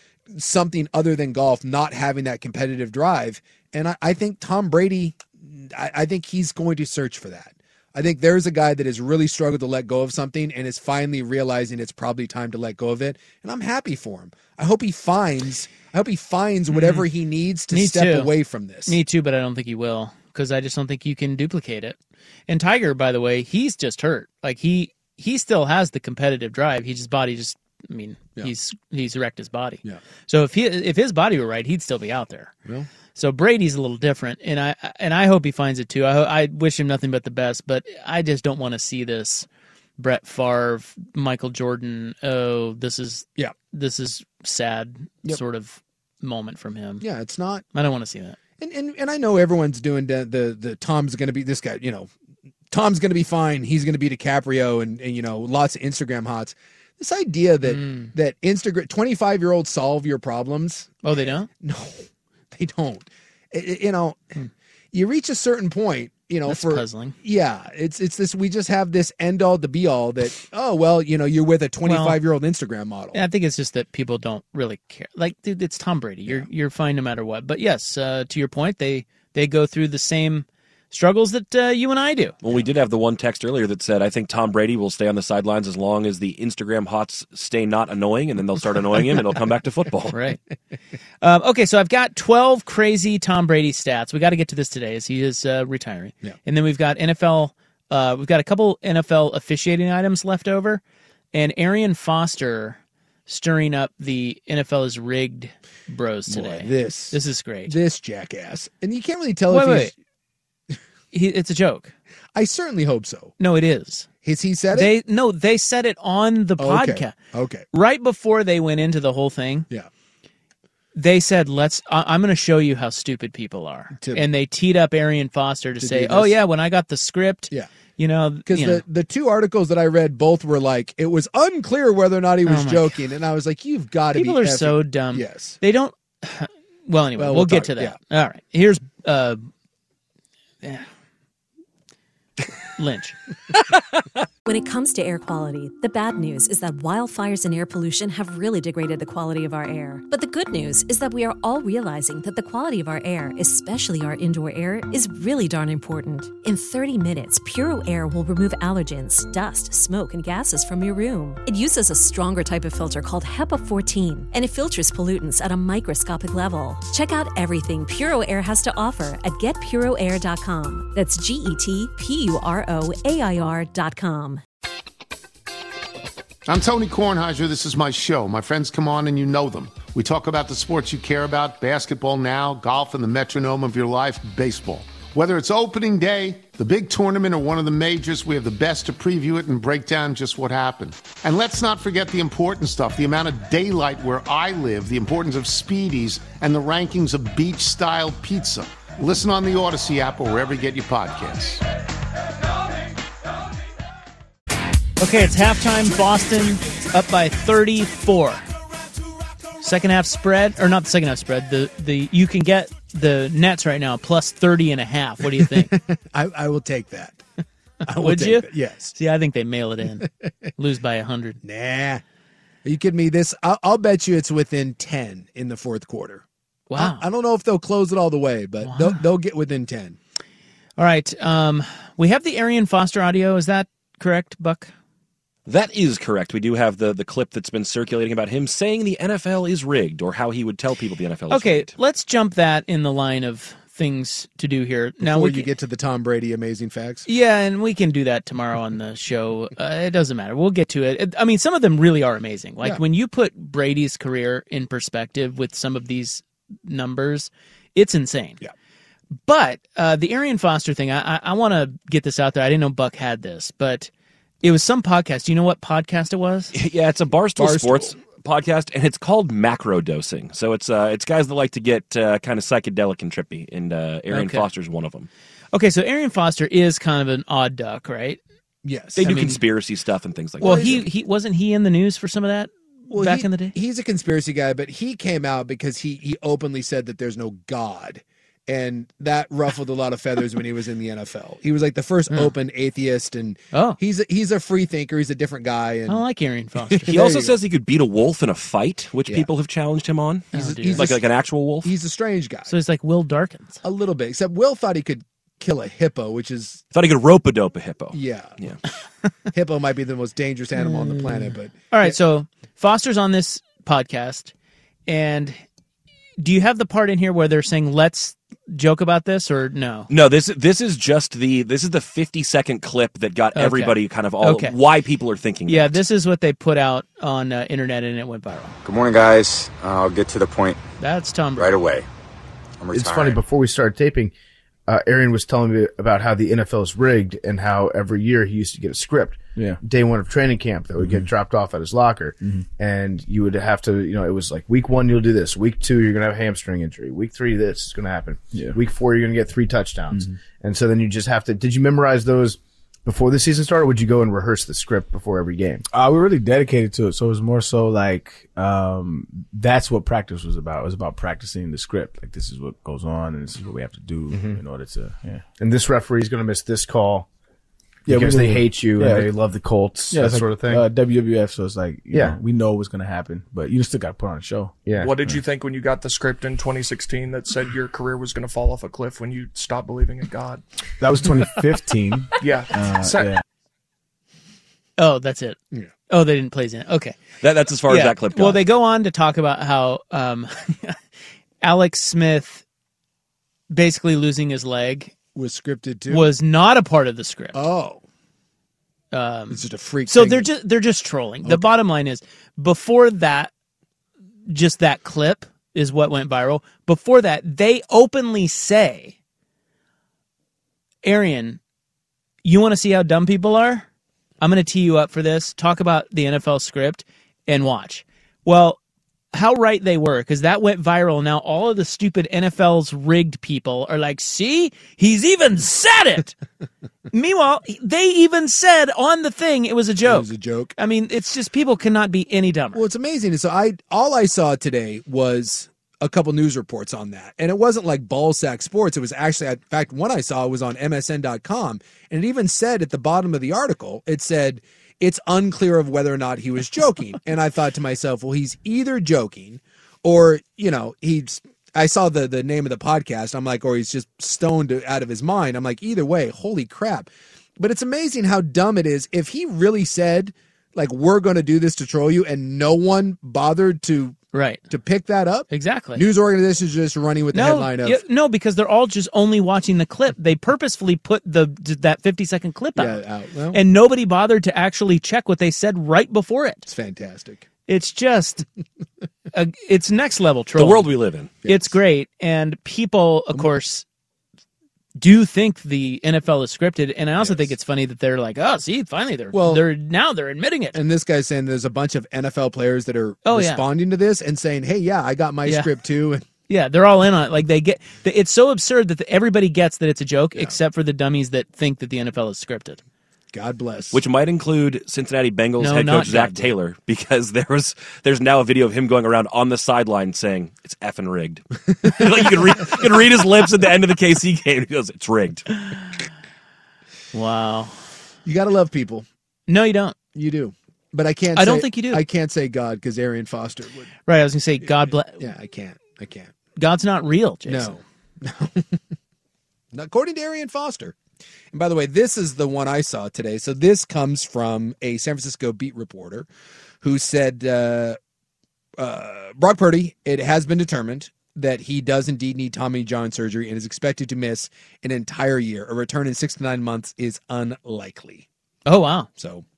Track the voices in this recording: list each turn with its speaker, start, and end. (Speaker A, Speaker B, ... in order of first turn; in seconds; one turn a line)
Speaker A: 0.3-19.0
Speaker B: 16.7-17.0
Speaker B: 17.7-18.3
Speaker B: 18.9-22.0
Speaker B: 22.5-32.5
Speaker B: 33.1-39.5
Speaker B: 40.0-47.0
Speaker A: 47.0-47.6
Speaker B: 47.7-48.4
Speaker A: 48.6-52.1
Speaker A: 52.7-64.3
Speaker B: 57.6-58.1
Speaker B: 61.0-61.5
Speaker A: 64.9-73.2
Speaker B: 66.5-67.2
Speaker B: 71.8-72.2
Speaker B: 73.1-82.3
Speaker C: 82.4-90.2
Speaker B: 90.1-90.4
Speaker B: 91.2-100.8
Speaker B: 101.3-107.7
Speaker A: 106.3-110.0
Speaker B: 109.5-109.9
Speaker B: 111.1-111.9
Speaker A: 112.3-113.3
Speaker B: 113.4-114.1
Speaker A: 114.2-114.9
Speaker B: 114.7-117.1
Speaker A: 116.6-117.7
Speaker B: 117.7-119.7
Speaker B: 120.9-128.8
Speaker A: 124.0-124.2
Speaker A: 125.8-126.3
Speaker A: 128.4-135.6
Speaker B: 132.4-132.9
Speaker B: 134.1-139.5
Speaker A: 137.2-138.0
Speaker B: 140.6-140.9
Speaker B: 142.8-143.2
Speaker D: 144.4-174.4
Speaker E: 176.5-201.6
Speaker B: 205.0-208.4
Speaker B: 209.6-215.7
Speaker A: 215.3-217.2
Speaker A: 217.8-218.9
Speaker B: 218.0-221.4
Speaker A: 221.4-222.0
Speaker A: 222.6-230.0
Speaker B: 226.7-227.0
Speaker B: 228.6-229.0
Speaker B: 230.8-234.7
Speaker C: 235.5-241.7
Speaker B: 241.3-245.5
Speaker A: 245.0-247.1
Speaker B: 247.1-258.4
Speaker B: 259.2-263.9
Speaker B: 264.4-266.5
Speaker C: 266.5-275.1
Speaker A: 267.4-267.9
Speaker B: 274.1-274.5
Speaker B: 275.5-278.2
Speaker A: 278.6-279.1
Speaker C: 278.9-280.8
Speaker B: 279.0-279.4
Speaker B: 280.4-283.5
Speaker A: 280.4-280.8
Speaker A: 282.9-296.0
Speaker B: 293.5-293.8
Speaker B: 295.9-296.9
Speaker A: 296.7-297.4
Speaker C: 296.9-301.7
Speaker B: 300.3-300.9
Speaker A: 300.3-301.1
Speaker A: 301.6-302.5
Speaker B: 302.5-303.6
Speaker A: 303.6-306.6
Speaker C: 306.7-308.6
Speaker A: 307.9-308.4
Speaker A: 309.3-311.9
Speaker B: 310.6-314.3
Speaker B: 314.9-315.4
Speaker B: 316.2-319.9
Speaker C: 319.9-325.8
Speaker B: 323.3-324.6
Speaker B: 325.5-328.5
Speaker F: 328.6-330.6
Speaker B: 330.8-331.5
Speaker F: 331.4-331.9
Speaker F: 332.6-333.2
Speaker G: 332.7-334.1
Speaker G: 334.7-355.6
Speaker H: 340.8-341.1
Speaker H: 342.2-342.4
Speaker H: 348.3-348.6
Speaker H: 349.9-350.2
Speaker H: 355.7-365.3
Speaker G: 364.1-364.4
Speaker G: 365.4-367.1
Speaker H: 367.9-369.1
Speaker G: 367.9-370.6
Speaker H: 369.9-375.2
Speaker G: 371.9-372.2
Speaker G: 374.6-374.9
Speaker I: 374.8-380.4
Speaker H: 380.8-383.2
Speaker I: 382.2-383.1
Speaker B: 384.8-385.4
Speaker B: 385.9-387.0
Speaker C: 387.2-388.4
Speaker B: 387.7-390.8
Speaker B: 391.4-392.4
Speaker B: 393.5-394.9
Speaker A: 395.1-396.1
Speaker B: 395.9-397.4
Speaker A: 397.3-397.8
Speaker B: 398.9-403.3
Speaker A: 399.3-400.3
Speaker A: 401.2-401.5
Speaker B: 404.3-408.9
Speaker B: 410.8-411.4
Speaker B: 412.2-413.7
Speaker B: 414.2-418.6
Speaker B: 419.1-426.1
Speaker B: 426.9-432.6
Speaker A: 429.8-430.5
Speaker A: 432.5-464.0
Speaker B: 464.1-464.4
Speaker A: 464.5-467.8
Speaker B: 465.3-465.8
Speaker B: 467.1-472.8
Speaker A: 472.6-473.4
Speaker B: 473.3-476.5
Speaker A: 476.5-477.3
Speaker B: 477.5-478.2
Speaker B: 479.1-480.7
Speaker C: 480.4-481.2
Speaker A: 481.2-481.5
Speaker B: 481.2-483.6
Speaker B: 484.8-490.6
Speaker A: 487.0-487.3
Speaker A: 489.1-489.4
Speaker A: 490.5-496.0
Speaker B: 493.0-493.4
Speaker B: 495.2-495.5
Speaker B: 496.3-502.6
Speaker A: 503.1-503.8
Speaker C: 503.7-515.3
Speaker B: 505.4-506.3
Speaker B: 516.9-517.6
Speaker A: 518.0-518.9
Speaker B: 519.3-519.8
Speaker A: 519.9-523.7
Speaker B: 521.1-521.8
Speaker B: 523.9-525.0
Speaker A: 524.4-526.1
Speaker B: 526.4-527.6
Speaker A: 527.2-528.6
Speaker A: 529.5-530.8
Speaker A: 531.3-536.1
Speaker A: 536.6-537.8
Speaker A: 538.6-548.1
Speaker B: 548.5-548.9
Speaker A: 549.0-549.2